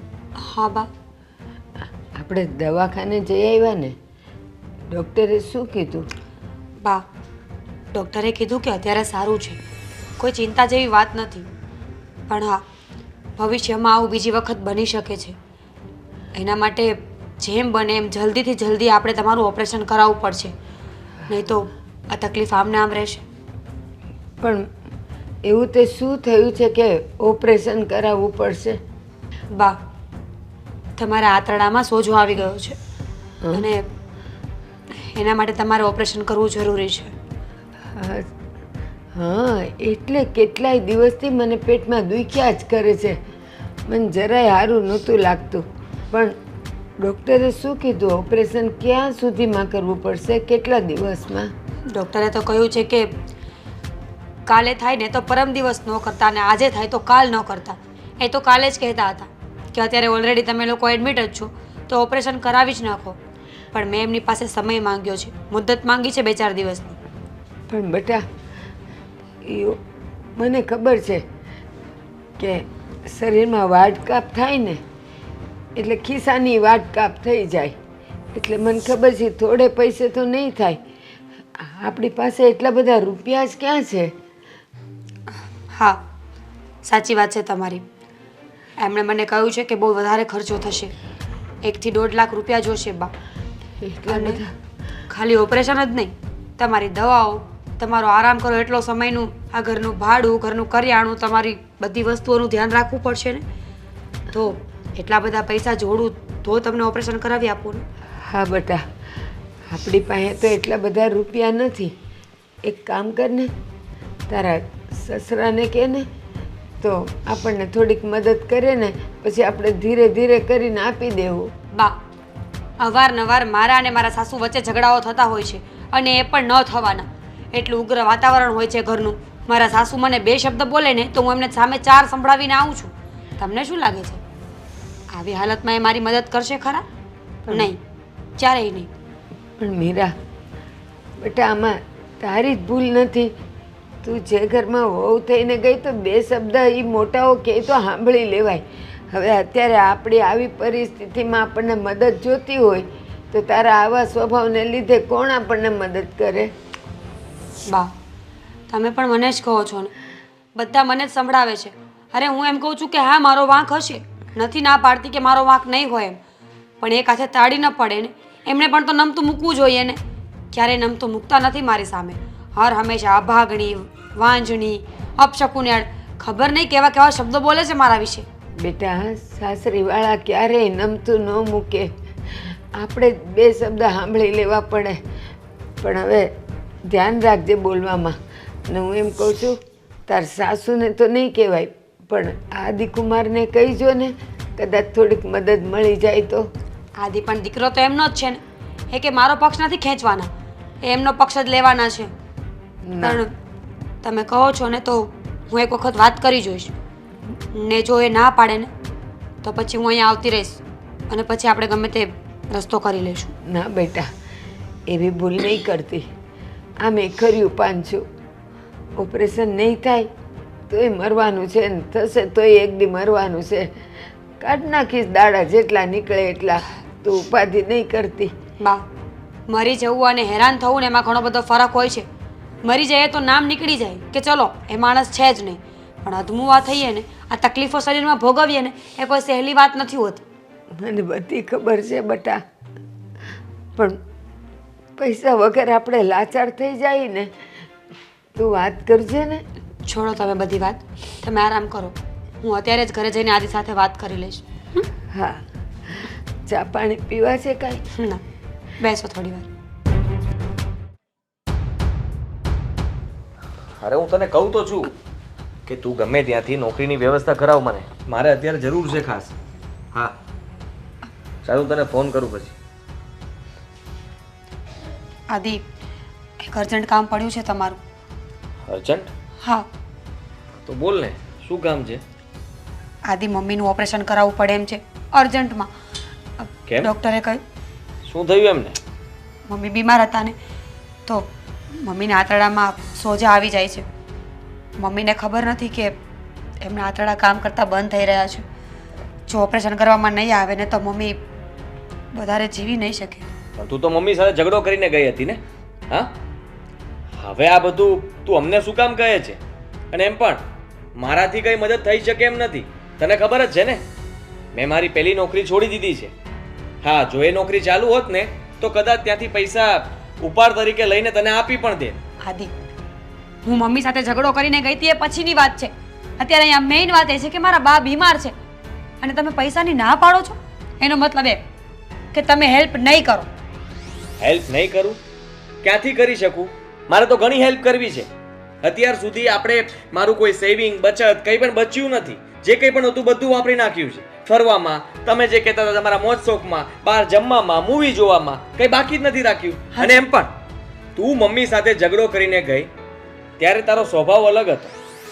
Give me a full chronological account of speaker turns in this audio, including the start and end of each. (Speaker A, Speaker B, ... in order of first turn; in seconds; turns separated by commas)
Speaker A: 0.3-0.9, Speaker B: 2.1-3.9, Speaker B: 4.9-6.1, Speaker A: 7.9-9.6, Speaker A: 10.2-11.5, Speaker A: 12.3-12.6, Speaker A: 13.4-15.4, Speaker A: 16.3-20.5, Speaker A: 21.3-23.2, Speaker B: 24.4-24.7, Speaker B: 25.4-28.8, Speaker A: 29.5-29.8, Speaker A: 30.9-32.8, Speaker A: 33.5-33.9, Speaker A: 34.9-37.1, Speaker B: 37.9-38.3, Speaker B: 39.1-43.2, Speaker B: 43.9-46.3, Speaker B: 47.0-51.5, Speaker A: 51.9-53.1, Speaker A: 54.5-63.2, Speaker A: 63.7-67.0, Speaker B: 67.7-68.2, Speaker B: 69.5-69.8, Speaker B: 70.4-71.2, Speaker B: 72.4-74.8, Speaker B: 75.8-77.8, Speaker B: 78.3-80.8, Speaker B: 81.6-84.1, Speaker A: 85.7-86.0, Speaker A: 86.8-87.8, Speaker A: 88.8-90.9, Speaker A: 91.6-93.1, Speaker B: 93.8-94.5, Speaker A: 94.1-94.4, Speaker A: 95.1-103.4, Speaker A: 104.3-107.8, Speaker B: 108.2-108.9, Speaker B: 109.7-111.9, Speaker B: 112.6-113.5, Speaker B: 114.3-116.1, Speaker B: 116.8-121.5, Speaker A: 122.8-134.2, Speaker A: 135.1-136.9, Speaker B: 137.5-137.7, Speaker A: 137.5-137.8, Speaker A: 138.4-138.9, Speaker B: 139.6-140.1, Speaker B: 141.2-143.3, Speaker B: 144.0-156.5, Speaker A: 157.7-157.9, Speaker A: 158.7-159.9, Speaker A: 160.6-166.2, Speaker A: 166.8-170.0, Speaker A: 170.5-178.2, Speaker B: 178.6-185.0, Speaker B: 185.8-186.3, Speaker B: 186.9-196.5, Speaker A: 197.0-202.1, Speaker B: 202.8-203.2, Speaker A: 203.0-203.3, Speaker A: 204.0-206.7, Speaker A: 207.5-208.7, Speaker A: 209.4-213.3, Speaker B: 213.5-214.1, Speaker B: 214.9-216.1, Speaker B: 216.8-218.1, Speaker B: 219.0-220.1, Speaker B: 220.7-228.3, Speaker A: 228.6-228.9, Speaker A: 229.5-232.1, Speaker A: 232.6-240.2, Speaker B: 240.8-242.4, Speaker B: 245.0-247.3, Speaker B: 248.4-249.4, Speaker A: 249.8-254.9, Speaker B: 255.1-257.8, Speaker A: 257.9-258.2, Speaker A: 258.8-259.5, Speaker C: 263.8-264.9, Speaker C: 265.7-269.3, Speaker C: 271.4-272.5, Speaker A: 275.3-275.6, Speaker A: 276.4-277.8, Speaker C: 278.7-279.1, Speaker A: 279.4-279.7, Speaker C: 280.6-282.0, Speaker A: 283.1-285.7, Speaker A: 286.4-287.4, Speaker C: 288.1-288.8, Speaker A: 289.5-290.4, Speaker A: 291.1-293.9, Speaker A: 294.8-296.0, Speaker A: 296.6-298.4, Speaker A: 299.3-301.2, Speaker A: 302.1-303.3, Speaker C: 303.6-306.1, Speaker C: 307.2-309.4, Speaker C: 309.9-310.4, Speaker C: 310.9-313.8, Speaker C: 314.5-316.1, Speaker C: 316.8-322.0, Speaker A: 322.2-322.5, Speaker A: 323.4-328.4, Speaker A: 329.0-331.4, Speaker A: 332.1-333.3, Speaker C: 334.2-335.0, Speaker C: 335.6-338.1, Speaker C: 338.6-350.3, Speaker A: 349.8-350.1, Speaker C: 350.9-352.7, Speaker C: 353.4-354.7